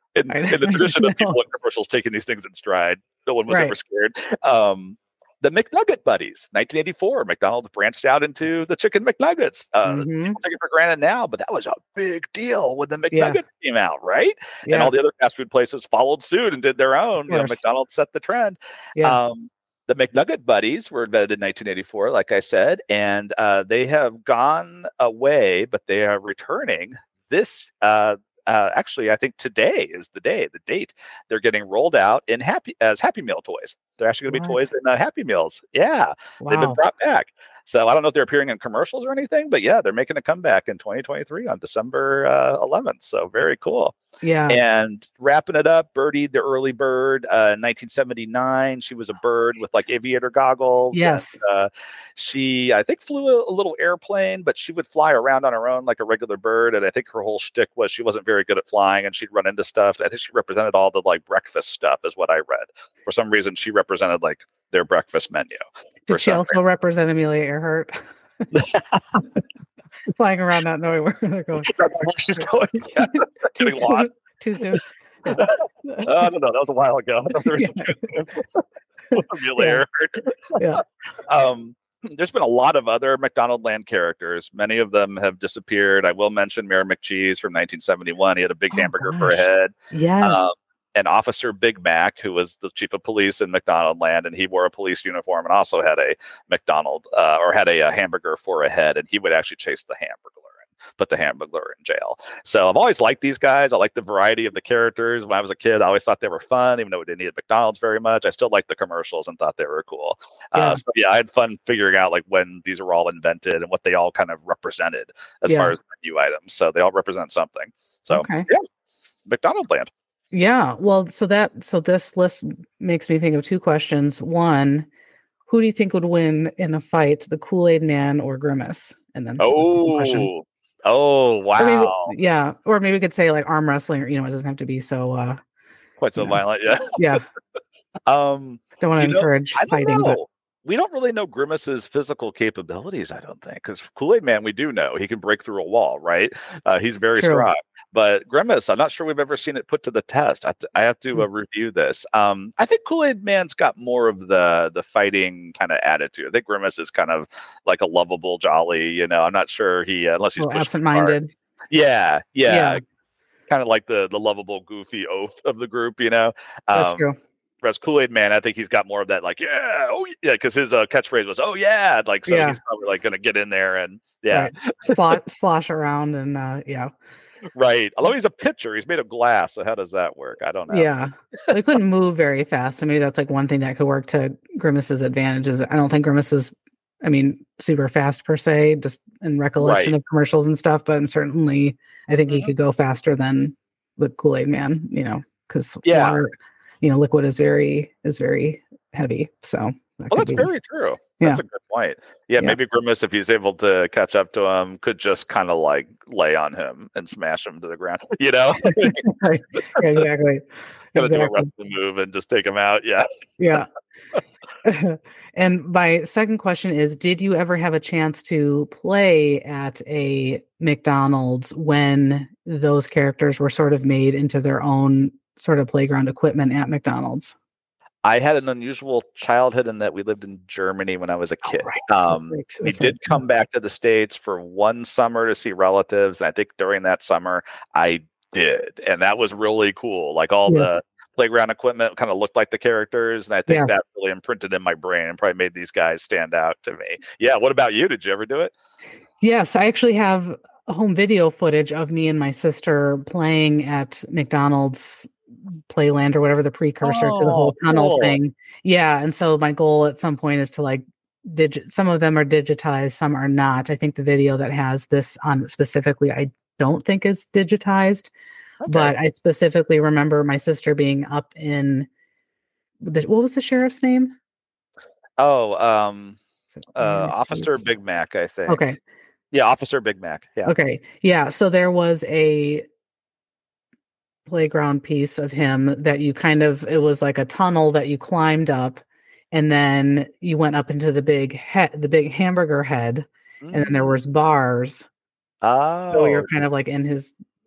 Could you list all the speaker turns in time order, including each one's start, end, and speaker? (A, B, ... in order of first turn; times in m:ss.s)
0:00.1-0:44.0 A
0:00.3-0:01.4 B
0:03.5-0:03.7 B
0:09.8-0:10.4 B
0:13.1-0:13.4 B
0:14.6-0:14.9 B
0:17.3-0:17.6 B
0:34.3-0:34.6 B
0:36.4-0:36.8 B
0:44.2-0:44.6 B
0:44.5-1:06.6 A
0:50.9-0:51.4 B
1:06.1-1:08.5 B
1:08.5-1:09.2 A
1:10.1-1:16.1 B
1:11.6-1:14.1 A
1:14.6-1:18.6 A
1:17.3-1:18.1 B
1:19.1-1:19.8 B
1:19.1-1:20.5 A
1:21.2-1:58.6 A
1:28.7-1:30.5 B
1:50.5-1:50.8 B
1:55.5-1:55.7 B
1:58.1-1:58.5 B
1:59.2-1:59.9 A
2:00.3-2:04.9 B
2:05.5-2:10.3 B
2:09.4-2:12.1 A
2:11.6-2:15.4 B
2:16.0-2:17.2 A
2:17.0-2:17.2 B
2:18.1-2:41.2 A
2:18.8-2:20.2 B
2:27.2-2:27.5 B
2:40.4-2:41.3 B
2:41.7-2:42.8 A
2:42.5-2:42.8 B
2:43.5-2:47.1 A
2:46.7-2:47.2 B
2:47.6-2:55.2 A
2:52.3-2:52.6 B
2:54.3-2:56.9 B
2:57.5-3:00.9 A
3:00.7-3:20.5 B
3:09.6-3:10.0 A
3:15.8-3:16.2 A
3:20.1-3:30.0 A
3:28.6-3:31.5 B
3:30.9-3:33.1 A
3:33.4-3:33.7 B
3:34.6-3:47.3 B
3:48.0-4:08.5 A
3:51.5-3:53.2 B
4:03.5-4:03.7 B
4:09.2-4:15.1 B
4:15.7-4:28.1 B
4:16.8-4:18.2 A
4:28.6-4:28.9 A
4:28.6-4:31.9 B
4:32.8-4:34.1 B
4:35.2-4:36.2 A
4:36.6-4:37.5 B
4:36.8-4:38.6 A
4:38.5-4:38.8 B
4:39.3-4:40.5 A
4:40.4-4:42.6 B
4:44.3-4:48.8 B
4:49.3-4:54.9 B
4:53.4-4:53.9 A
4:55.4-4:56.3 A
4:55.9-4:57.1 B